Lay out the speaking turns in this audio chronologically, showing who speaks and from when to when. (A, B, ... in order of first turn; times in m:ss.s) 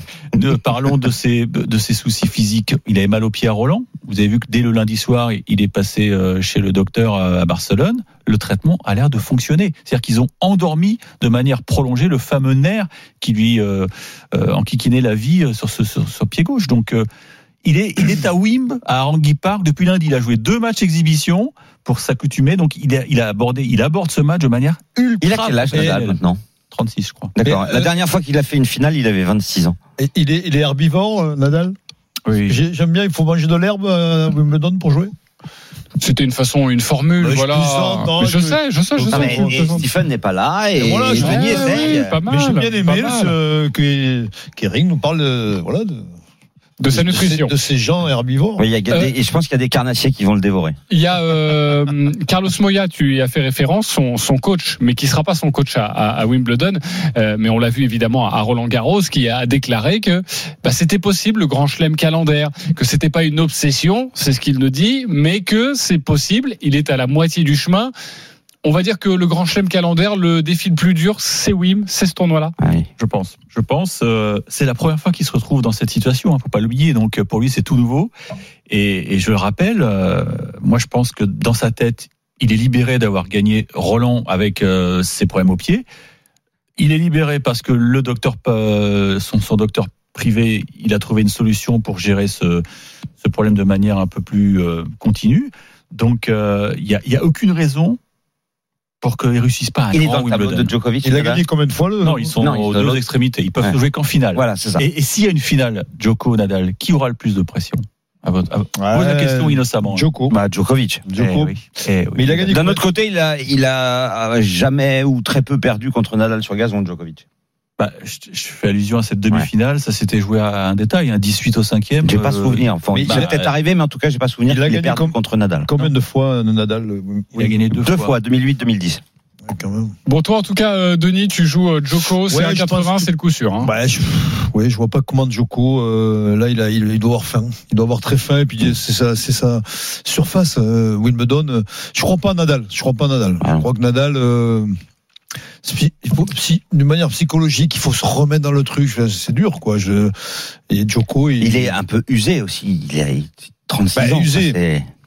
0:00.3-0:17.1 A
0:17.6-0:26.2 A
0:25.2-0:26.4 B
0:25.7-0:26.0 C
0:26.7-0:27.3 A
0:27.4-0:29.8 B
0:27.4-0:27.9 C
0:30.0-0:31.7 C
0:32.2-0:32.6 A
0:32.5-0:35.1 C
0:36.0-0:39.8 D
0:37.2-0:39.7 C
0:39.1-0:42.1 B
0:40.8-0:46.1 C
0:41.2-0:43.3 D
0:46.8-0:47.6 D
0:46.9-0:48.6 C
0:48.6-0:50.8 B
0:50.9-1:07.9 D
1:08.6-1:12.5 D
1:12.6-1:12.9 B
1:13.0-1:18.1 A
1:18.7-1:25.8 A
1:26.8-1:32.6 A
1:33.2-1:38.0 A
1:39.0-1:40.7 A
1:39.9-1:41.4 B
1:41.0-1:42.3 C
1:42.0-1:50.0 A
1:42.4-1:43.0 B
1:44.3-1:44.8 B
1:48.8-1:50.3 C
1:50.3-1:51.0 B
1:51.0-1:51.5 C
1:51.2-1:52.6 A
1:52.1-1:52.8 C
1:52.5-1:57.2 B
1:57.8-2:03.5 A
2:02.0-2:05.7 B
2:02.9-2:03.4 C
2:04.5-2:05.1 C
2:05.7-2:07.7 C
2:07.4-2:08.1 A
2:07.8-2:09.0 B
2:09.4-2:09.9 C
2:10.0-2:13.7 D
2:12.2-2:13.1 C
2:13.6-2:24.7 C
2:25.6-2:31.8 C
2:31.4-2:34.8 B
2:33.9-2:34.6 C